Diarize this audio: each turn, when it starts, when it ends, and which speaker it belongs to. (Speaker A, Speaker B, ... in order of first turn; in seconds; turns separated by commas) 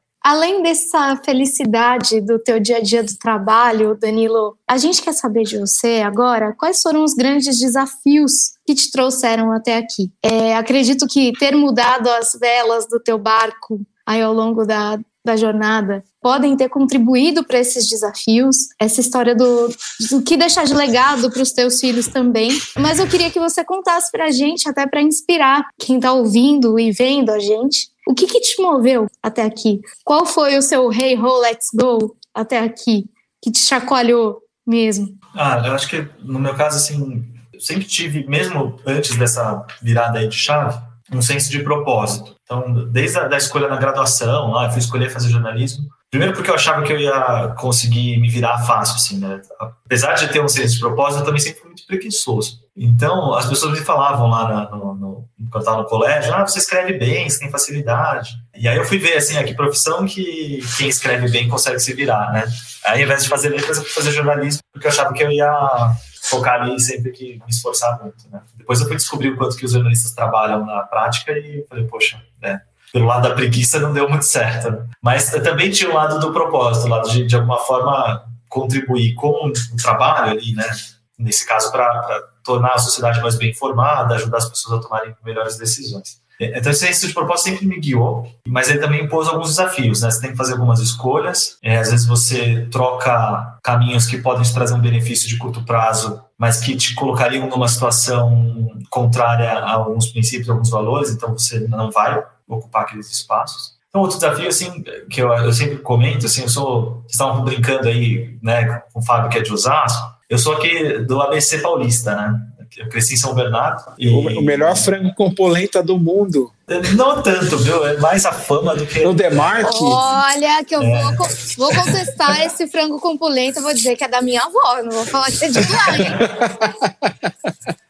Speaker A: 0.2-35.2, Speaker B: 35.3-114.9, Speaker C: 114.1-116.5, Speaker B: 116.7-119.7, Speaker C: 119.0-120.1, Speaker A: 119.6-126.2, Speaker B: 120.8-122.0, Speaker C: 126.0-127.5